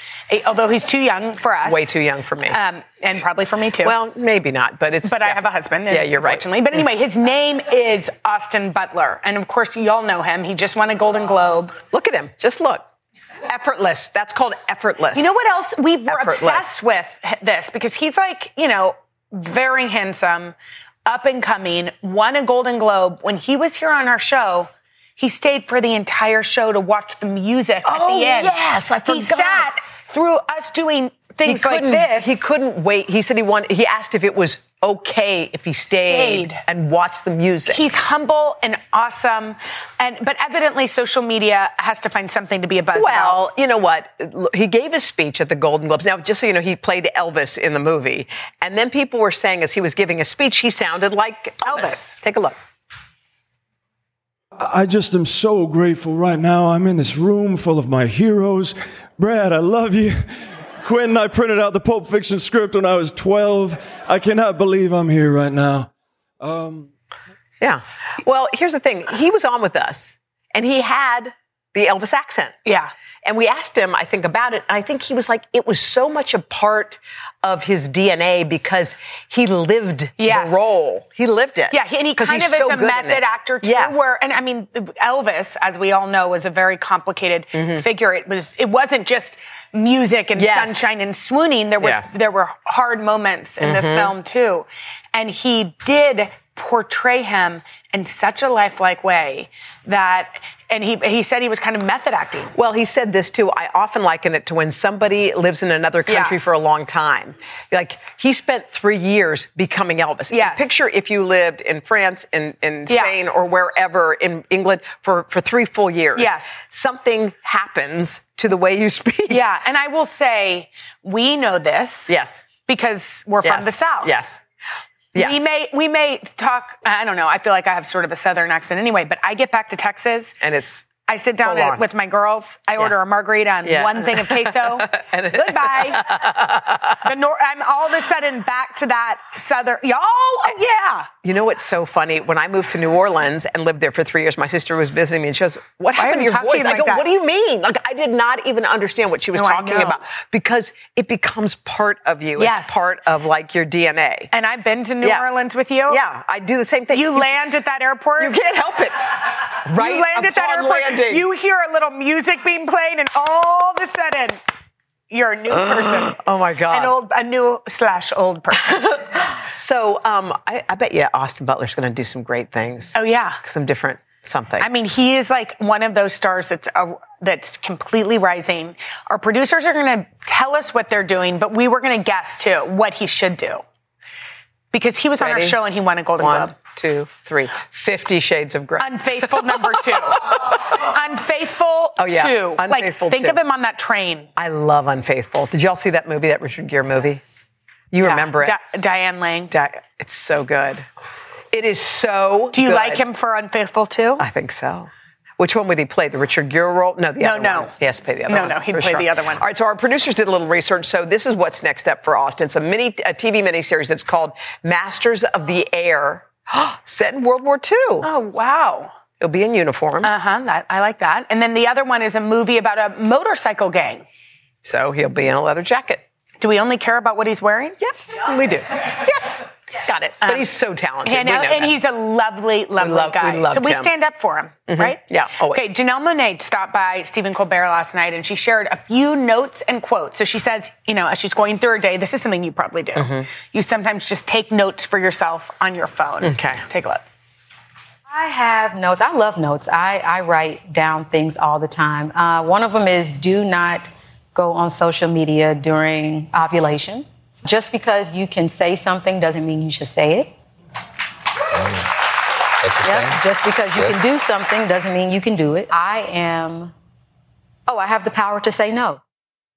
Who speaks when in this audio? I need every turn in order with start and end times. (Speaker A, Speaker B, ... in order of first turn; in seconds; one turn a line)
Speaker A: 0.3-1.9
Speaker B: 1.6-2.6
Speaker A: 2.5-3.9
Speaker B: 3.8-6.4
Speaker A: 5.0-11.8
Speaker B: 11.9-12.8
Speaker B: 13.5-15.3
Speaker A: 15.1-20.5
Speaker B: 16.1-16.7
Speaker A: 21.1-32.4
Speaker B: 27.8-29.7
Speaker B: 31.4-37.8
Speaker A: 35.9-36.6
Speaker A: 37.7-43.4
Speaker B: 42.9-52.5
Speaker A: 51.6-52.1
Speaker C: 54.6-60.2
Speaker C: 60.8-65.9
Speaker C: 66.4-66.9
Speaker B: 67.6-72.6
Speaker A: 72.7-72.9
Speaker B: 73.2-84.0
Speaker A: 80.2-80.7
Speaker A: 81.7-102.5
Speaker B: 87.5-87.8
Speaker B: 90.3-90.8
Speaker B: 93.6-94.1
Speaker B: 102.5-119.4
Speaker A: 106.1-106.3
Speaker A: 110.3-110.7
Speaker A: 112.9-113.1
Speaker A: 116.1-116.6
Speaker A: 119.3-122.1
Speaker B: 122.1-122.4
Speaker A: 122.7-124.2
Speaker B: 123.4-124.4
Speaker B: 125.1-125.4
Speaker A: 125.2-130.4
Speaker B: 130.4-130.9
Speaker A: 131.1-136.1
Speaker B: 131.4-131.8
Speaker B: 133.6-137.0
Speaker A: 137.0-141.1
Speaker B: 141.2-154.3
Speaker A: 145.9-147.1
Speaker A: 149.3-150.0
Speaker A: 152.4-152.8
Speaker A: 154.3-156.0
Speaker B: 155.0-155.3
Speaker B: 155.9-157.3
Speaker A: 156.9-158.4
Speaker B: 158.2-159.1
Speaker B: 159.7-161.2
Speaker A: 159.7-164.4
Speaker A: 165.1-166.2
Speaker B: 165.7-166.9
Speaker A: 166.7-169.0
Speaker B: 168.7-174.7
Speaker A: 172.9-173.4
Speaker A: 174.6-183.6
Speaker A: 184.7-186.5
Speaker B: 185.2-185.6
Speaker B: 186.2-190.6
Speaker A: 188.8-194.3
Speaker B: 192.0-193.4
Speaker B: 194.4-197.2
Speaker B: 197.9-198.6
Speaker A: 198.0-199.5
Speaker B: 199.5-200.8
Speaker B: 201.5-203.0
Speaker A: 202.5-204.2
Speaker B: 204.2-218.1
Speaker A: 207.2-207.7
Speaker A: 208.3-209.4
Speaker A: 218.0-218.9
Speaker B: 219.2-220.1
Speaker A: 220.0-224.0
Speaker B: 224.6-226.0
Speaker A: 226.4-227.8
Speaker B: 227.8-231.7
Speaker A: 230.2-230.5
Speaker A: 231.0-247.0
Speaker B: 232.8-233.9
Speaker B: 234.7-235.6
Speaker B: 242.9-243.3
Speaker B: 246.2-246.6
Speaker D: 248.1-260.3
Speaker D: 262.6-266.7
Speaker D: 267.7-269.0